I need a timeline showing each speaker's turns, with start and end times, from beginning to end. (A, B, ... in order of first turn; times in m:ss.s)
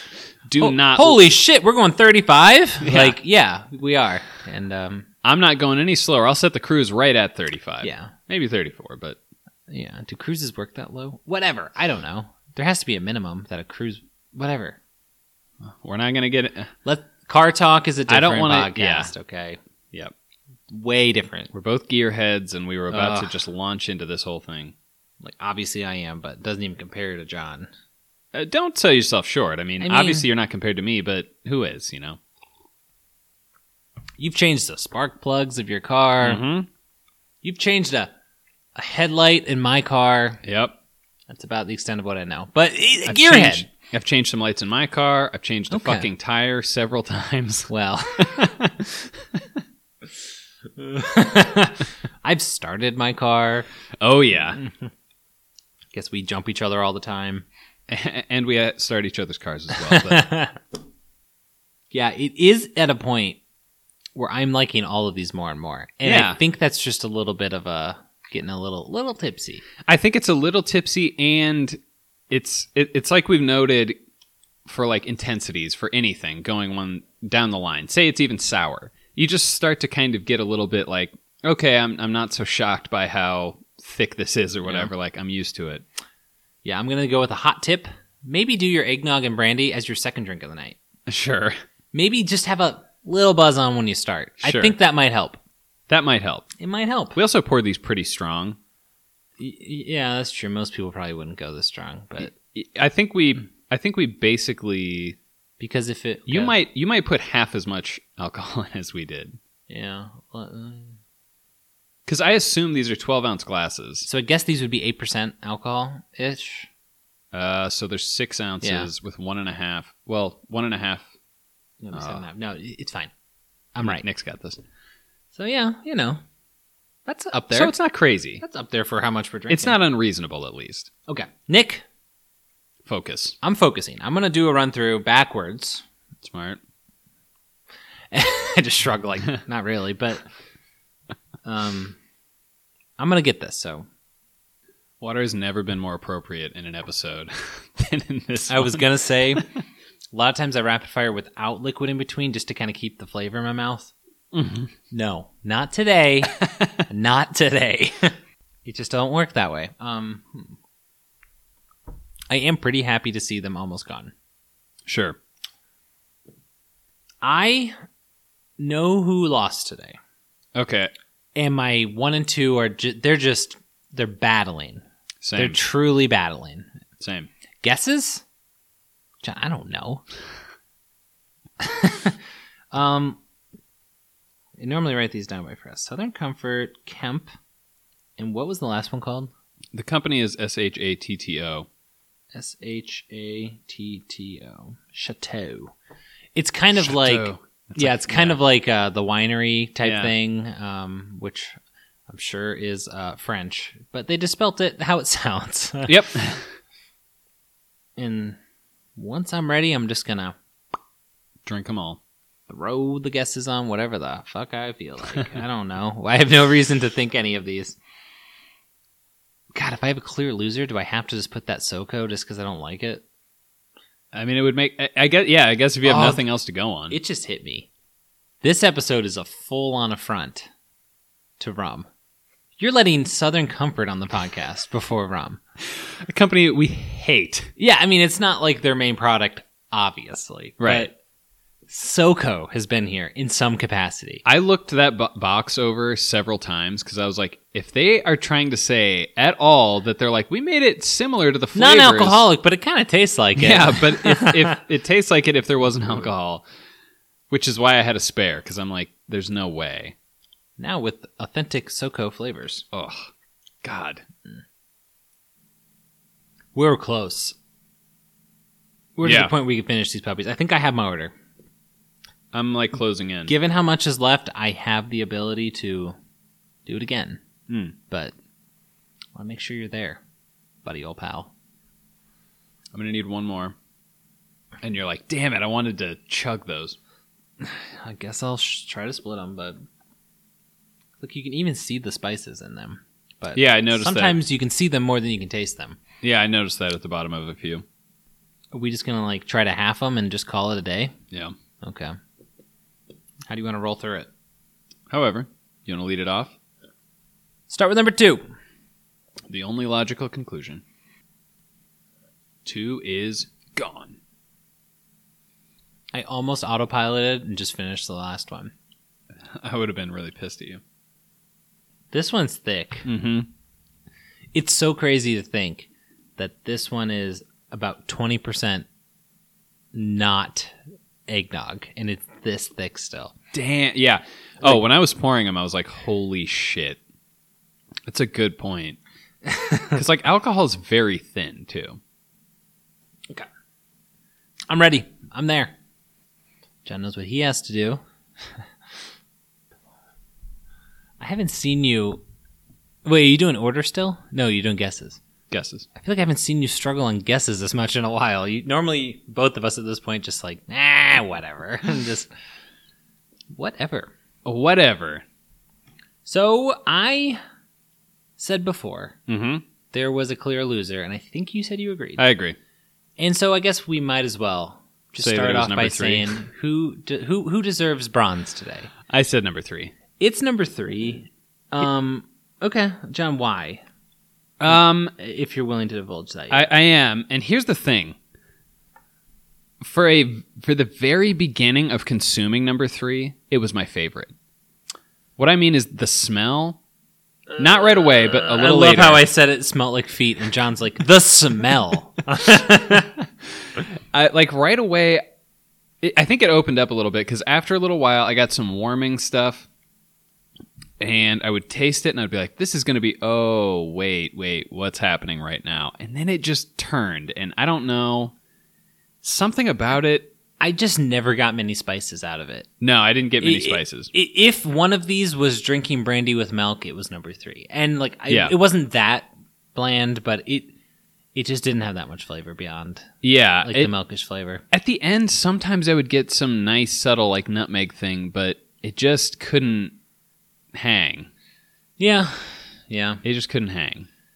0:00.5-0:01.2 A
0:00.6-0:05.1 B
0:02.8-0:03.1 A
0:05.2-0:09.2 A
0:07.8-0:08.1 B
0:09.7-0:14.8 B
0:15.6-0:16.7 A
0:16.8-0:19.6 B
0:18.1-0:19.1 A
0:20.7-0:21.5 B
0:21.5-0:24.7 A
0:22.9-0:23.3 B
0:25.2-0:27.7 B
0:28.3-0:32.2 A
0:29.8-0:30.2 B
0:34.2-0:36.4 B
0:36.2-0:36.7 A
0:37.4-0:38.1 B
0:38.7-0:40.4 B
0:40.4-0:40.7 A
0:41.3-0:43.7 B
0:43.1-0:49.4 A
0:45.7-0:46.1 B
0:47.7-0:48.5 B
0:50.8-0:53.7 B
0:54.0-0:54.6 A
0:54.6-0:54.9 B
0:55.9-0:57.4 B
0:57.9-1:00.3 A
0:59.7-1:00.6 B
1:01.9-1:03.4 B
1:04.1-1:09.6 B
1:06.0-1:06.4 A
1:09.8-1:11.8 A
1:12.3-1:14.0 A
1:14.6-1:25.8 A
1:26.6-1:30.8 B
1:31.1-1:31.5 A
1:31.9-1:35.4 B
1:34.4-1:34.7 A
1:35.9-1:36.4 A
1:36.6-1:37.2 B
1:37.1-1:38.6 A
1:39.4-1:42.3 B
1:42.2-1:45.2 A
1:45.6-1:46.5 B
1:46.3-1:49.4 A
1:49.7-1:51.0 B
1:52.0-1:54.0 A
1:54.0-1:56.7 B
1:57.3-2:01.1 A
1:58.6-1:58.9 B
2:01.8-2:03.1 B
2:01.9-2:02.2 A
2:03.7-2:04.0 B
2:03.8-2:04.6 A
2:05.3-2:06.2 B
2:07.1-2:07.8 B
2:07.5-2:08.4 A
2:08.4-2:09.8 B
2:09.5-2:10.9 A
2:11.1-2:11.8 B
2:12.8-2:13.4 A
2:13.4-2:15.8 B
2:16.2-2:16.6 A
2:18.1-2:20.2 B
2:21.4-2:22.0 B
2:23.0-2:23.8 B
2:25.0-2:28.8 A
2:28.5-2:29.5 B
2:30.1-2:33.9 B
2:34.3-2:34.7 A
2:34.9-2:40.6 B
2:36.4-2:36.7 A
2:42.3-2:44.1 B
2:44.8-2:45.2 A
2:47.2-2:47.7 B
2:48.6-2:50.0 B
2:50.5-2:50.9 A
2:51.3-2:54.8 B
2:55.2-2:55.6 A
2:55.3-2:56.7 B
2:57.0-2:57.3 A
2:57.6-2:58.2 B
2:59.2-3:00.0 B
3:01.6-3:02.2 B
3:02.7-3:03.2 B
3:04.6-3:07.3 B
3:08.2-3:09.3 B
3:09.7-3:11.7 A
3:12.3-3:15.7 B
3:16.3-3:21.5 B
3:16.8-3:18.4 A
3:19.8-3:20.1 A
3:22.1-3:26.0 B
3:25.8-3:26.4 A
3:28.0-3:28.4 B
3:29.0-3:30.4 B
3:31.4-3:32.0 A
3:32.5-3:37.8 B
3:39.5-3:43.0 B
3:44.1-3:47.0 A
3:45.8-3:46.2 B
3:46.9-3:47.7 B
3:48.4-3:50.5 B
3:51.4-3:51.9 B
3:52.6-3:55.4 B
3:55.7-3:57.5 A
3:57.6-4:00.9 B
4:00.6-4:00.9 A
4:01.7-4:04.2 B
4:04.2-4:12.2 A
4:11.5-4:14.6 B
4:13.4-4:16.4 A
4:17.3-4:19.9 A
4:20.6-4:22.6 B
4:22.7-4:23.1 A
4:23.6-4:24.0 A
4:26.5-4:27.3 B
4:29.0-4:31.1 B
4:29.0-4:29.3 A
4:32.3-4:33.3 A
4:33.3-4:35.9 B
4:36.6-4:37.2 B
4:37.5-4:37.7 A
4:39.1-4:40.0 B
4:40.6-4:41.3 B
4:42.7-4:43.5 A
4:44.6-4:46.8 A
4:47.4-4:49.6 B
4:51.0-4:55.8 B
4:53.3-4:54.2 A
4:56.0-4:57.6 A
4:58.5-5:00.9 B
5:01.6-5:01.9 B
5:03.3-5:04.1 B
5:04.9-5:06.3 A
5:07.5-5:08.2 B
5:09.3-5:10.6 A
5:12.4-5:14.0 A
5:15.9-5:18.5 B
5:19.3-5:20.6 A
5:21.9-5:22.9 B
5:22.8-5:23.3 A
5:24.3-5:28.6 B
5:29.7-5:30.5 B
5:31.1-5:33.1 B
5:33.3-5:36.8 A
5:37.9-5:38.8 A
5:39.2-5:39.8 B
5:39.7-5:41.8 A
5:44.5-5:45.5 B
5:46.6-5:47.8 B
5:51.0-5:52.0 B
5:52.8-5:55.0 B
5:55.3-5:55.7 A
5:55.7-6:02.1 B
6:03.3-6:03.9 B
6:04.2-6:05.0 A
6:06.0-6:07.2 B
6:08.2-6:09.0 B
6:09.1-6:09.4 A
6:09.7-6:12.0 B
6:12.0-6:12.4 A
6:13.0-6:18.7 B
6:15.0-6:16.1 A
6:18.9-6:19.7 A
6:20.0-6:23.6 B
6:24.4-6:24.9 A
6:24.5-6:26.5 B
6:26.3-6:28.0 A
6:29.6-6:34.1 A
6:35.2-6:36.6 A
6:37.4-6:39.0 A
6:37.8-6:42.9 B
6:43.6-6:45.0 A
6:45.8-6:49.5 A
6:50.8-6:58.1 A
6:59.0-7:00.1 A
7:00.4-7:02.5 B
7:02.6-7:03.9 A
7:03.2-7:10.5 B
7:08.1-7:08.3 A
7:11.1-7:12.9 B
7:13.0-7:13.7 A
7:13.4-7:14.4 B
7:14.5-7:19.7 A
7:20.5-7:21.1 A
7:21.8-7:23.0 B
7:23.0-7:23.9 A